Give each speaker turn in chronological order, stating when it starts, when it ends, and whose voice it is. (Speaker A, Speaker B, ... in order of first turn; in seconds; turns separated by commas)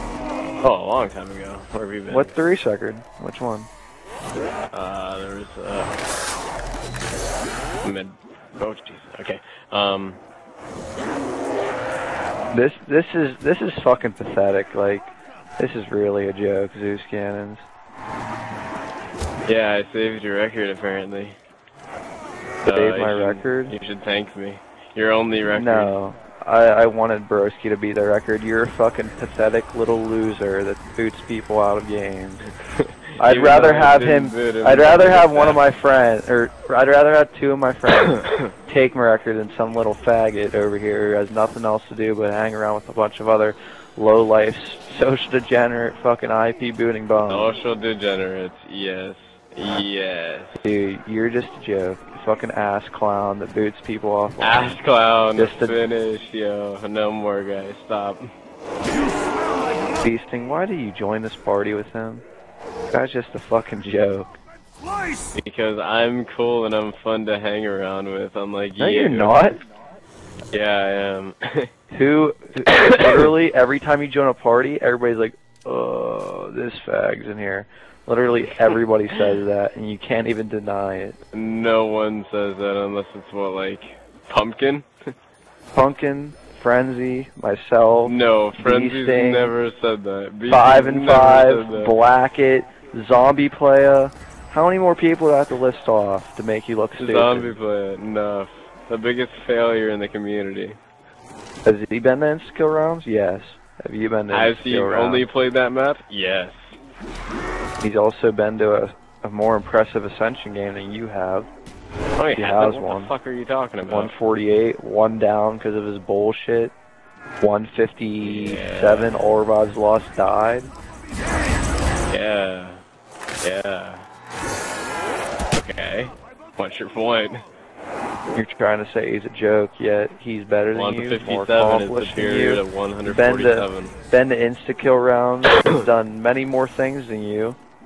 Speaker A: 0.6-2.3, Speaker B: 2.1-3.7, Speaker A: 4.7-6.0, Speaker A: 7.8-10.2, Speaker B: 12.5-17.6, Speaker A: 19.4-21.4, Speaker A: 22.6-25.9, Speaker B: 22.6-23.8, Speaker B: 25.4-32.5, Speaker A: 32.8-35.6, Speaker B: 33.2-47.5, Speaker A: 38.1-38.5, Speaker A: 47.3-50.6, Speaker B: 50.6-54.8, Speaker A: 54.4-58.3, Speaker B: 55.4-55.8, Speaker B: 60.0-62.2, Speaker B: 62.9-64.3, Speaker A: 65.3-69.5, Speaker B: 68.8-69.6, Speaker A: 70.5-71.7, Speaker B: 71.9-81.2, Speaker A: 81.3-84.9, Speaker B: 85.7-89.5, Speaker A: 88.0-91.9, Speaker B: 90.5-97.5, Speaker A: 97.0-100.8, Speaker B: 101.6-105.2, Speaker A: 104.3-106.7, Speaker B: 107.8-111.5, Speaker A: 112.2-114.1, Speaker B: 112.3-113.1, Speaker B: 113.9-116.7, Speaker B: 117.4-120.7, Speaker A: 118.2-119.2, Speaker A: 122.1-122.8, Speaker A: 123.4-124.0, Speaker A: 125.5-127.5, Speaker B: 128.3-137.6, Speaker A: 130.7-134.0